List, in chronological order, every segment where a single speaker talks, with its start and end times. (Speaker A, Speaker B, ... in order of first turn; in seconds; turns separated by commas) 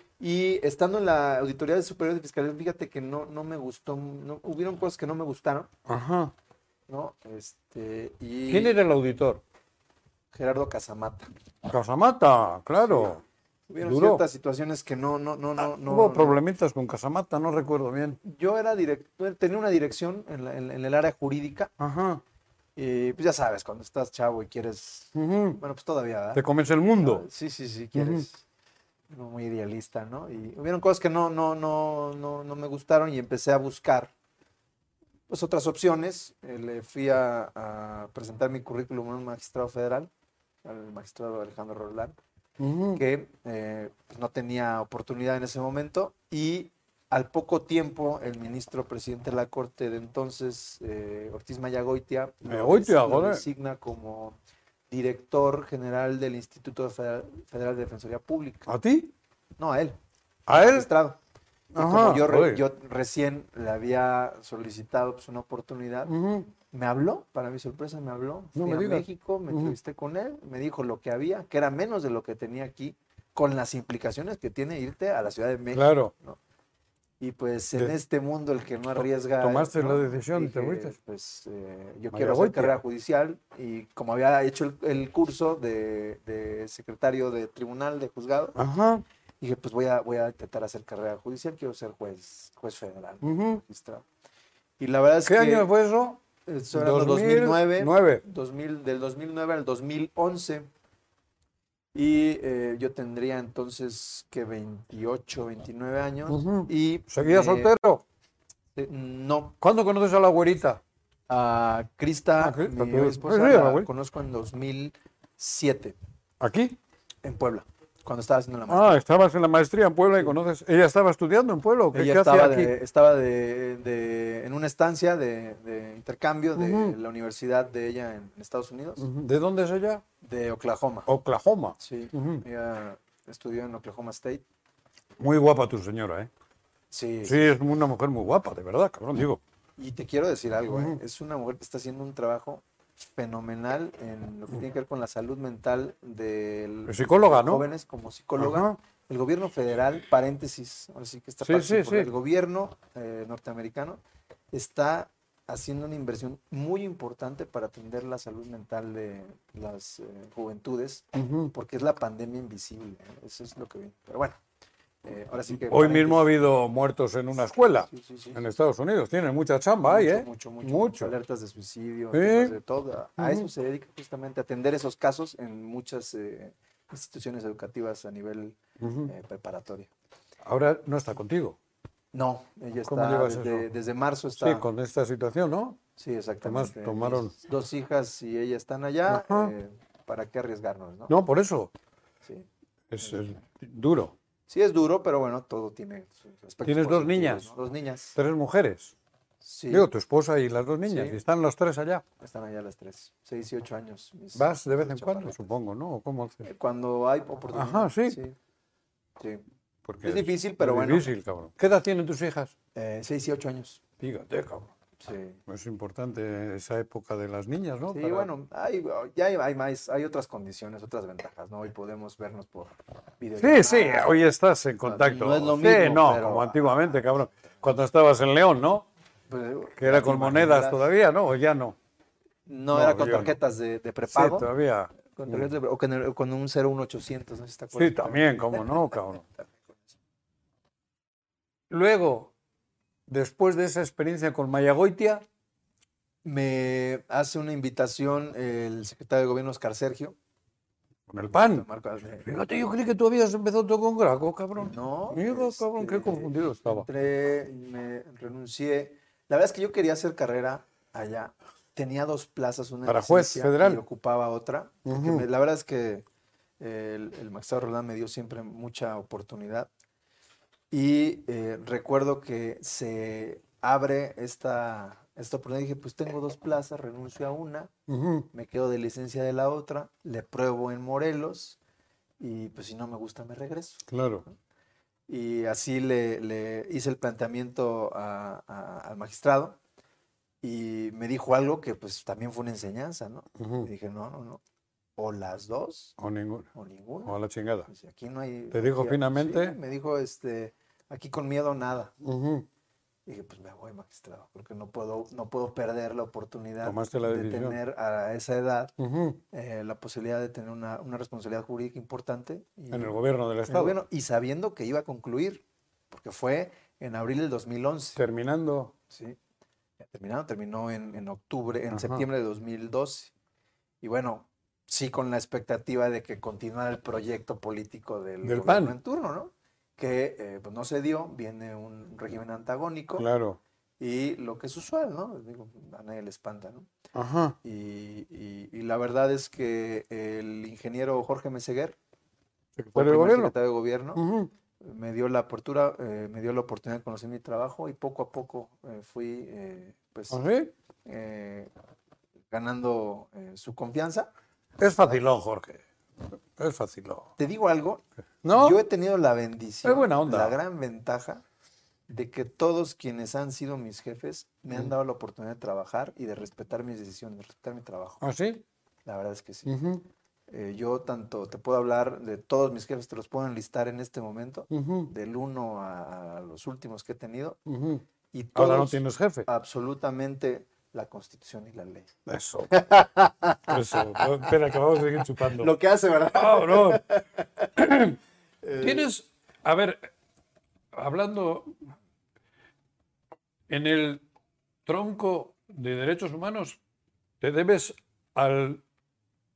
Speaker A: 0.2-5.7, Speaker B: 5.9-6.3, Speaker A: 6.9-8.8, Speaker B: 8.5-9.4, Speaker A: 10.3-11.3, Speaker B: 11.7-13.2, Speaker A: 12.8-16.4, Speaker B: 13.8-14.2, Speaker B: 15.6-18.2, Speaker A: 18.2-21.7, Speaker B: 21.8-22.2, Speaker A: 22.8-26.4, Speaker B: 25.1-25.6, Speaker B: 26.3-27.2, Speaker A: 27.0-28.4, Speaker B: 27.9-28.2, Speaker A: 29.1-34.1, Speaker A: 35.3-40.1, Speaker A: 40.6-42.2, Speaker B: 42.6-43.0, Speaker A: 42.9-54.4, Speaker B: 52.5-53.4, Speaker A: 54.9-58.7, Speaker B: 58.7-59.1, Speaker A: 59.6-60.0, Speaker B: 60.5-60.9, Speaker A: 60.5-61.2, Speaker B: 61.7-62.6, Speaker A: 61.8-76.4, Speaker B: 66.1-66.5, Speaker B: 68.6-69.8, Speaker B: 75.7-76.1, Speaker A: 77.2-88.6, Speaker B: 79.4-81.0, Speaker B: 82.1-82.8, Speaker B: 88.6-89.0, Speaker A: 89.4-94.1, Speaker B: 93.2-93.6, Speaker A: 94.8-95.7, Speaker B: 95.2-96.2, Speaker A: 96.4-100.7, Speaker B: 96.7-98.2, Speaker A: 101.9-107.7, Speaker B: 106.3-108.0, Speaker A: 108.8-109.5, Speaker B: 109.6-110.8, Speaker A: 111.3-116.0, Speaker B: 112.4-113.9, Speaker B: 116.4-116.8, Speaker A: 117.2-119.0, Speaker B: 118.7-122.7, Speaker A: 121.9-129.1, Speaker B: 126.6-127.0, Speaker B: 129.0-130.0, Speaker A: 130.2-131.1, Speaker B: 131.1-132.4, Speaker A: 131.8-134.4, Speaker B: 135.2-136.3, Speaker A: 136.9-137.5, Speaker B: 137.2-139.4, Speaker A: 139.8-154.0, Speaker B: 140.7-141.0, Speaker B: 146.9-147.7, Speaker B: 148.4-148.8, Speaker B: 151.4-152.1, Speaker A: 154.5-164.4, Speaker B: 161.2-161.5, Speaker A: 165.0-166.3, Speaker B: 165.5-171.1, Speaker A: 167.9-168.4, Speaker A: 169.8-179.9, Speaker B: 172.1-172.6, Speaker B: 173.2-173.5, Speaker B: 178.8-179.1, Speaker B: 180.4-181.6, Speaker A: 182.1-184.7, Speaker B: 182.8-183.7, Speaker B: 184.4-185.8, Speaker A: 186.0-191.1, Speaker B: 186.4-187.3, Speaker B: 189.1-189.5, Speaker B: 191.1-191.7, Speaker B: 192.9-194.2, Speaker A: 194.5-198.2, Speaker B: 196.7-197.5, Speaker B: 198.2-198.9, Speaker A: 199.4-199.9, Speaker B: 199.7-202.0, Speaker A: 200.9-201.2, Speaker A: 202.2-205.5, Speaker B: 204.3-206.5, Speaker A: 206.4-208.4, Speaker B: 207.5-208.2, Speaker A: 209.2-209.4, Speaker B: 209.9-212.5, Speaker A: 210.0-211.1, Speaker A: 212.8-213.8, Speaker B: 214.0-214.7, Speaker A: 215.0-215.4, Speaker B: 215.5-218.3, Speaker A: 217.9-224.2, Speaker B: 223.4-228.9, Speaker A: 224.8-227.6, Speaker A: 229.3-230.9, Speaker B: 229.8-231.8, Speaker A: 232.5-234.5, Speaker B: 232.7-233.4, Speaker B: 234.1-235.5, Speaker A: 235.2-239.8, Speaker B: 237.7-239.2, Speaker B: 241.7-242.3, Speaker B: 243.1-245.3, Speaker A: 246.2-250.2, Speaker B: 251.1-251.7, Speaker A: 251.3-252.3, Speaker B: 252.2-256.9, Speaker A: 254.6-266.1, Speaker B: 262.9-263.8, Speaker B: 264.9-265.3, Speaker A: 266.6-269.7, Speaker A: 270.7-277.7, Speaker B: 277.9-278.3, Speaker A: 278.3-281.6, Speaker A: 282.2-284.3, Speaker B: 283.9-284.2, Speaker A: 285.1-289.6, Speaker A: 290.4-294.4, Speaker B: 293.4-293.7, Speaker A: 295.0-296.0, Speaker B: 296.0-296.5, Speaker A: 296.5-297.2, Speaker B: 297.1-297.7, Speaker A: 297.7-301.9, Speaker B: 298.5-299.6, Speaker B: 302.0-302.5, Speaker A: 303.1-308.7, Speaker B: 306.6-307.6, Speaker B: 308.8-309.2, Speaker A: 309.3-318.0, Speaker B: 312.7-313.8, Speaker B: 318.0-318.7, Speaker A: 318.9-319.2, Speaker A: 319.8-323.1, Speaker B: 321.7-322.1, Speaker A: 323.8-333.1, Speaker B: 328.2-328.7, Speaker B: 333.0-333.4, Speaker A: 333.8-336.7, Speaker B: 336.9-337.4, Speaker A: 337.4-341.8, Speaker B: 342.6-343.4, Speaker A: 342.8-344.0, Speaker B: 344.0-344.3, Speaker A: 344.6-350.2, Speaker B: 350.1-350.5, Speaker A: 350.9-351.5, Speaker A: 352.3-354.1, Speaker B: 354.6-355.6, Speaker B: 356.4-357.1, Speaker A: 357.2-361.2, Speaker B: 358.2-358.6, Speaker B: 359.6-360.4, Speaker A: 361.9-368.0, Speaker B: 368.0-368.4, Speaker A: 368.9-369.7, Speaker B: 369.5-369.8, Speaker A: 370.3-377.4, Speaker B: 374.5-374.9, Speaker B: 377.5-377.8, Speaker A: 378.1-381.9, Speaker B: 378.4-379.3, Speaker B: 382.1-382.6, Speaker A: 382.5-384.3, Speaker B: 383.4-385.5, Speaker A: 385.1-387.5, Speaker B: 386.1-386.8, Speaker B: 387.6-388.0, Speaker A: 388.4-388.9, Speaker B: 388.6-389.9, Speaker B: 390.7-391.6, Speaker B: 393.5-394.1, Speaker B: 394.7-396.6, Speaker B: 397.2-398.6